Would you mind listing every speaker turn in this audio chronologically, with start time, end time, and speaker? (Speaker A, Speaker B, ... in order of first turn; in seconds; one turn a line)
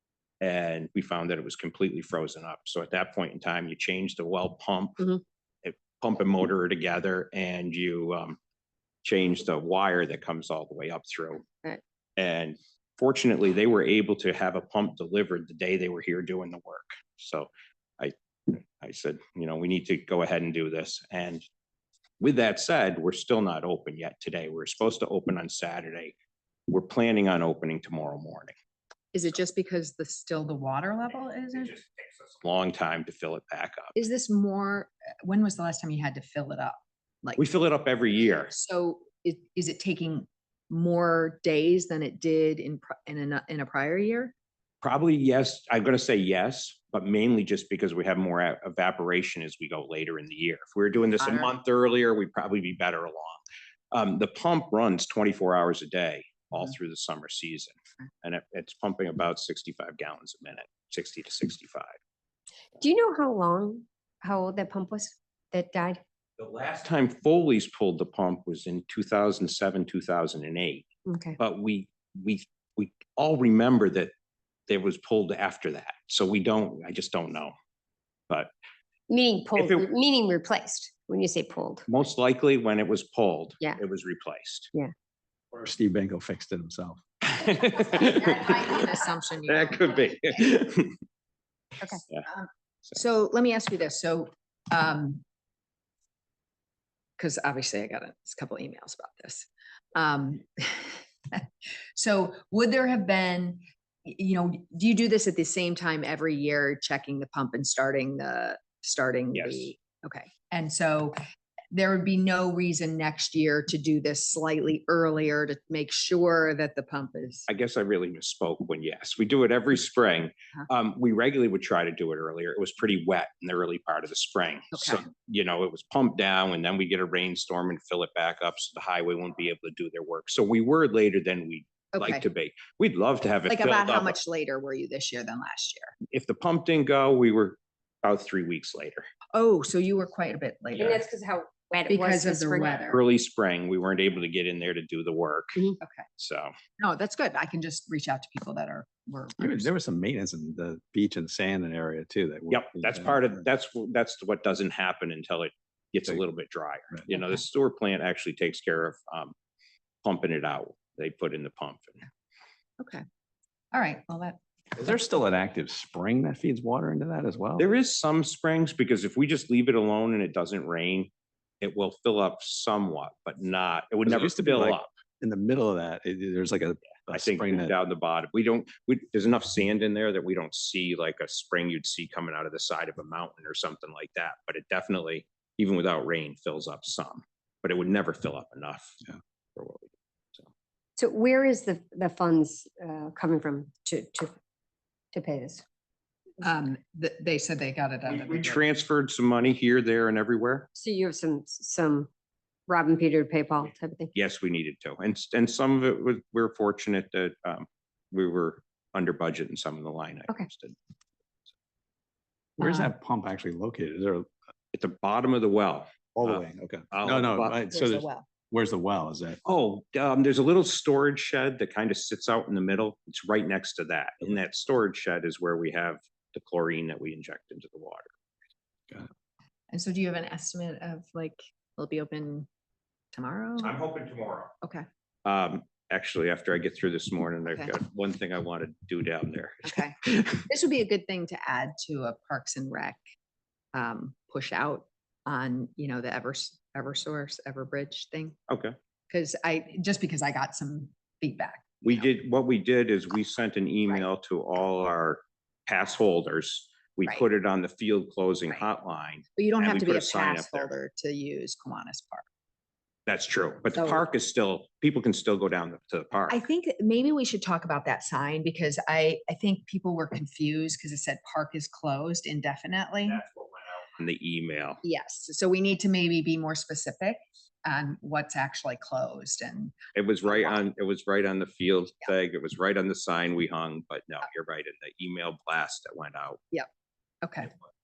Speaker A: 0.4-5.0
Speaker A: 5.6-8.4
Speaker A: 9.0-11.4
Speaker A: 12.2-21.4
Speaker A: 22.2-26.1
Speaker A: 26.7-28.5
Speaker B: 29.1-31.8
Speaker A: 31.5-34.0
Speaker B: 34.0-37.4
Speaker A: 37.4-38.5
Speaker B: 38.2-44.3
Speaker A: 44.8-53.4
Speaker B: 51.2-51.5
Speaker A: 53.9-61.9
Speaker C: 62.8-66.0
Speaker A: 66.4-70.9
Speaker C: 71.0-71.4
Speaker A: 71.4-74.1
Speaker A: 74.7-77.5
Speaker C: 79.1-81.8
Speaker A: 79.5-79.9
Speaker A: 81.9-84.7
Speaker D: 85.5-87.0
Speaker A: 87.2-88.9
Speaker B: 87.5-90.6
Speaker A: 89.5-90.9
Speaker B: 91.8-95.2
Speaker B: 97.2-111.2
Speaker A: 109.3-109.7
Speaker B: 111.7-117.5
Speaker A: 117.5-134.2
Speaker B: 124.7-125.0
Speaker B: 131.9-132.2
Speaker B: 133.4-135.9
Speaker A: 136.1-139.1
Speaker B: 139.3-141.0
Speaker C: 140.7-142.8
Speaker B: 141.9-143.0
Speaker A: 142.8-145.6
Speaker B: 145.8-146.1
Speaker A: 146.2-146.5
Speaker B: 146.8-149.7
Speaker D: 149.4-153.3
Speaker A: 152.5-159.3
Speaker A: 160.0-162.0
Speaker B: 162.8-163.0
Speaker B: 163.7-164.4
Speaker D: 164.8-167.7
Speaker A: 167.6-171.1
Speaker A: 171.6-174.9
Speaker D: 174.1-177.8
Speaker A: 177.1-189.0
Speaker A: 189.6-190.5
Speaker C: 191.0-194.3
Speaker C: 195.1-195.6
Speaker B: 196.4-198.6
Speaker A: 198.1-200.7
Speaker C: 200.7-202.1
Speaker C: 202.7-204.1
Speaker A: 204.1-210.8
Speaker D: 212.6-214.3
Speaker B: 212.6-212.9
Speaker A: 214.7-217.6
Speaker D: 216.1-219.4
Speaker B: 217.7-218.3
Speaker A: 219.4-228.1
Speaker B: 229.7-232.5
Speaker B: 233.1-233.7
Speaker A: 233.6-234.5
Speaker A: 235.2-240.2
Speaker B: 237.5-237.8
Speaker B: 239.6-243.0
Speaker B: 243.7-248.3
Speaker A: 248.5-248.8
Speaker B: 249.1-252.1
Speaker A: 251.8-260.7
Speaker B: 259.4-262.2
Speaker A: 263.1-266.4
Speaker B: 263.7-264.0
Speaker B: 266.3-273.2
Speaker A: 273.1-274.8
Speaker B: 274.8-280.6
Speaker A: 279.9-286.4
Speaker B: 287.2-287.5